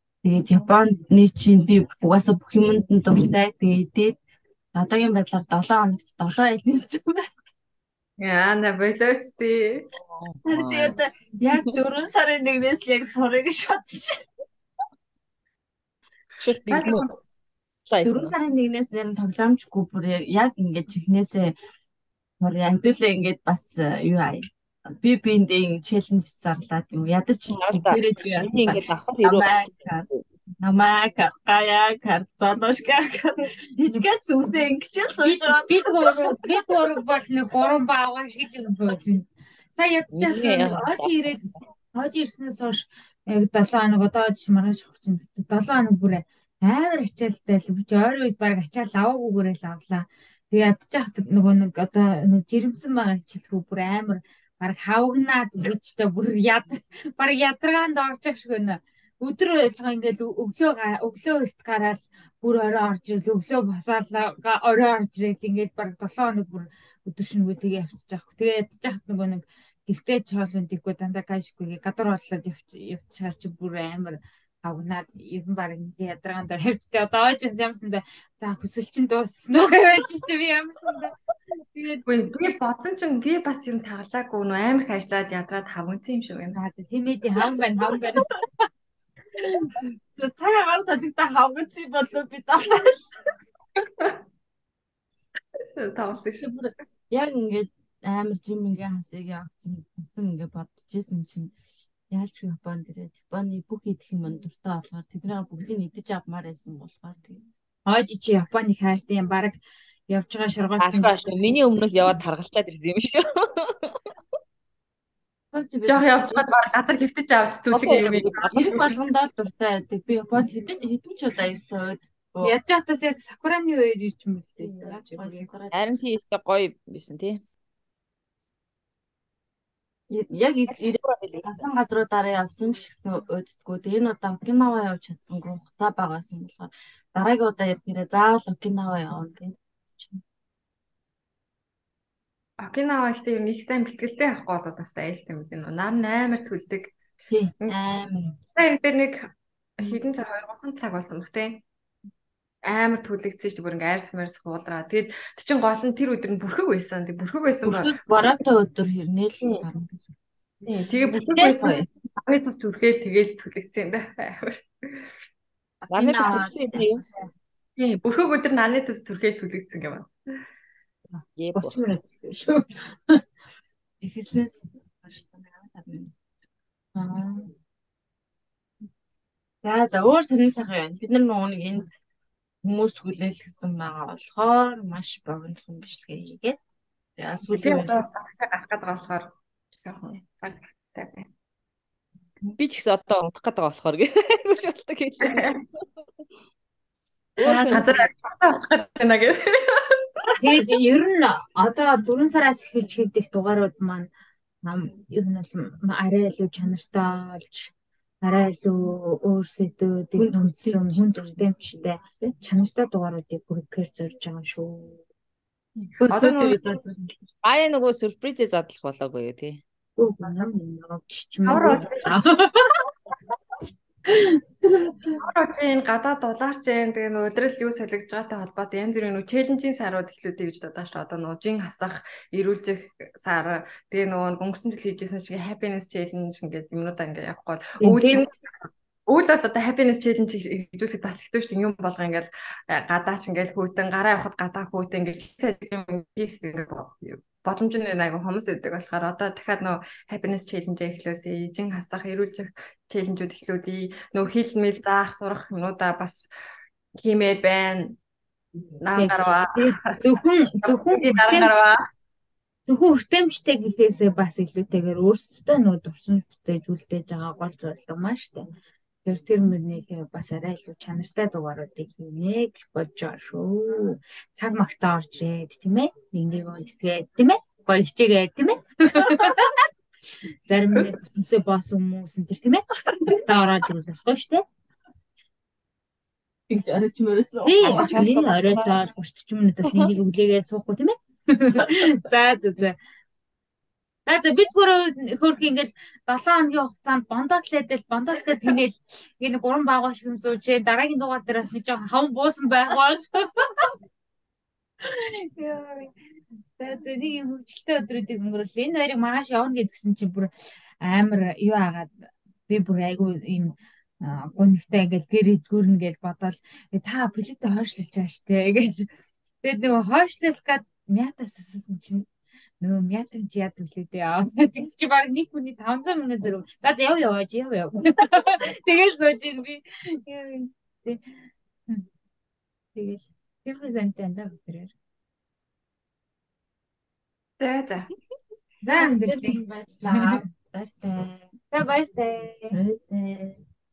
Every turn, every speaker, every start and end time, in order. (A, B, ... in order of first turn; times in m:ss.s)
0:00.2-0:04.2 A
0:04.8-0:07.2 A
0:08.2-0:09.9 B
0:10.0-0:11.0 C
0:10.4-0:14.2 A
0:16.4-0:17.0 C
0:16.5-0:17.1 B
0:17.8-0:18.3 C
0:18.0-0:21.5 A
0:22.4-0:30.1 A
0:27.5-0:30.2 C
0:30.6-0:36.5 A
0:35.2-1:22.0 D
0:40.1-0:41.3 C
1:22.1-1:26.6 B
1:26.5-1:28.4 D
1:29.4-1:29.7 D
1:30.1-1:33.0 A
1:33.8-1:34.1 B
1:35.8-1:36.5 B
1:36.4-1:41.5 A
1:42.1-1:47.4 A
1:47.8-1:52.2 D
1:50.8-1:54.0 C
1:55.5-1:56.4 A
1:55.9-1:58.9 B
1:57.7-1:58.7 C
1:57.8-2:02.5 A
2:02.4-2:05.5 D
2:04.6-2:05.9 A
2:05.7-2:07.4 C
2:10.1-2:20.2 A
2:10.7-2:11.6 C
2:22.6-2:26.9 B
2:27.3-2:28.4 A
2:28.6-2:31.6 B
2:32.6-2:37.9 B
2:37.6-2:40.1 A
2:40.6-2:45.0 B
2:41.1-2:41.9 A
2:45.8-2:46.5 A
2:45.9-2:47.0 C
2:46.3-2:47.2 D
2:47.8-2:50.1 B
2:51.1-2:53.2 D
2:51.4-2:51.8 C
2:54.0-2:56.1 A
2:56.9-2:57.5 D
2:59.6-3:01.9 A
3:02.6-3:06.6 A
3:07.2-3:08.0 A
3:07.5-3:09.3 B
3:09.8-3:11.3 B
3:12.5-3:15.6 C
3:15.2-3:15.5 B
3:17.4-3:18.0 C
3:17.4-3:17.8 A
3:17.7-3:19.4 B
3:20.4-3:24.1 D
3:24.6-3:35.0 D
3:30.2-3:32.3 A
3:35.8-3:36.6 B
3:36.0-3:37.0 A
3:37.4-3:39.6 C
3:40.0-3:42.7 D
3:41.4-3:42.1 B
3:44.1-3:45.1 D
3:45.2-4:16.3 B
3:57.8-3:58.2 D
4:17.0-4:18.0 B
4:18.8-4:19.7 B
4:18.9-4:21.5 D
4:20.6-4:21.8 B
4:22.6-4:28.5 D
4:29.0-4:39.5 D
4:40.5-4:44.4 D
4:46.5-4:48.0 A
4:47.4-4:52.8 D
4:47.6-4:48.8 C
4:54.0-5:03.7 D
5:04.8-5:05.9 D
5:06.6-5:18.9 D
5:19.4-5:22.1 D
5:22.6-5:31.1 D
5:32.8-5:34.7 D
5:37.4-5:37.9 B
5:38.6-5:40.2 D
5:38.7-5:41.3 A
5:41.5-5:42.5 D
5:42.5-5:43.4 A